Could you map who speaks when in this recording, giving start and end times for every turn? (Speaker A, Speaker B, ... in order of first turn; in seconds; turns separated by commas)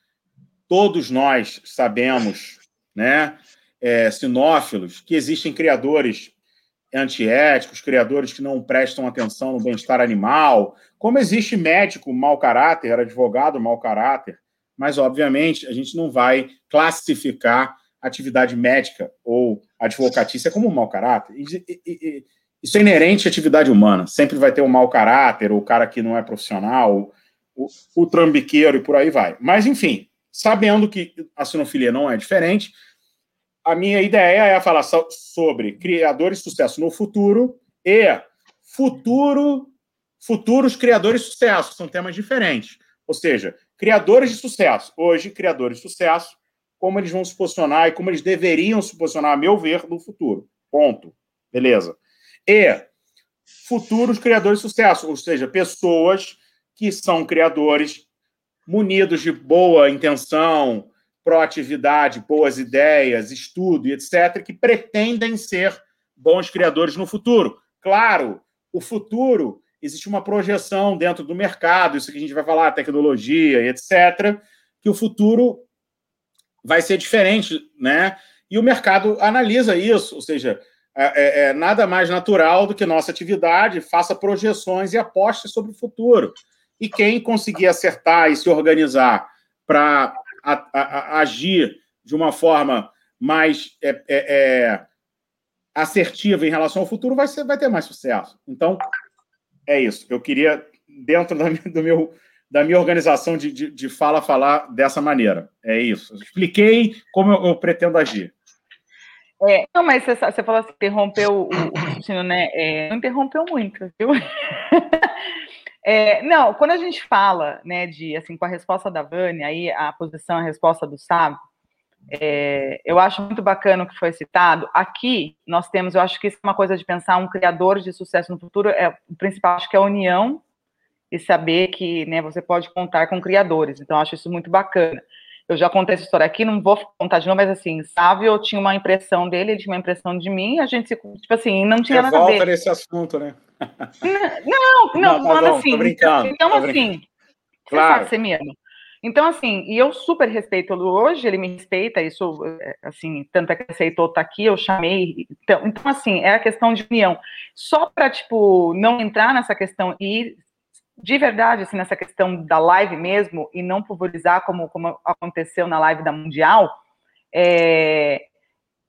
Speaker A: 0.7-6.3, Speaker A: 6.9-32.8, Speaker A: 33.6-52.9, Speaker A: 53.6-58.0, Speaker A: 58.7-75.7, Speaker A: 76.6-94.9, Speaker A: 95.8-98.8, Speaker A: 99.7-108.3, Speaker B: 109.4-115.1, Speaker B: 115.8-121.4, Speaker B: 122.1-130.4, Speaker B: 131.1-142.5, Speaker A: 141.9-143.9, Speaker B: 144.0-147.0, Speaker A: 145.0-146.8, Speaker B: 147.7-160.4, Speaker A: 147.7-148.1, Speaker B: 161.0-166.7, Speaker B: 167.3-168.2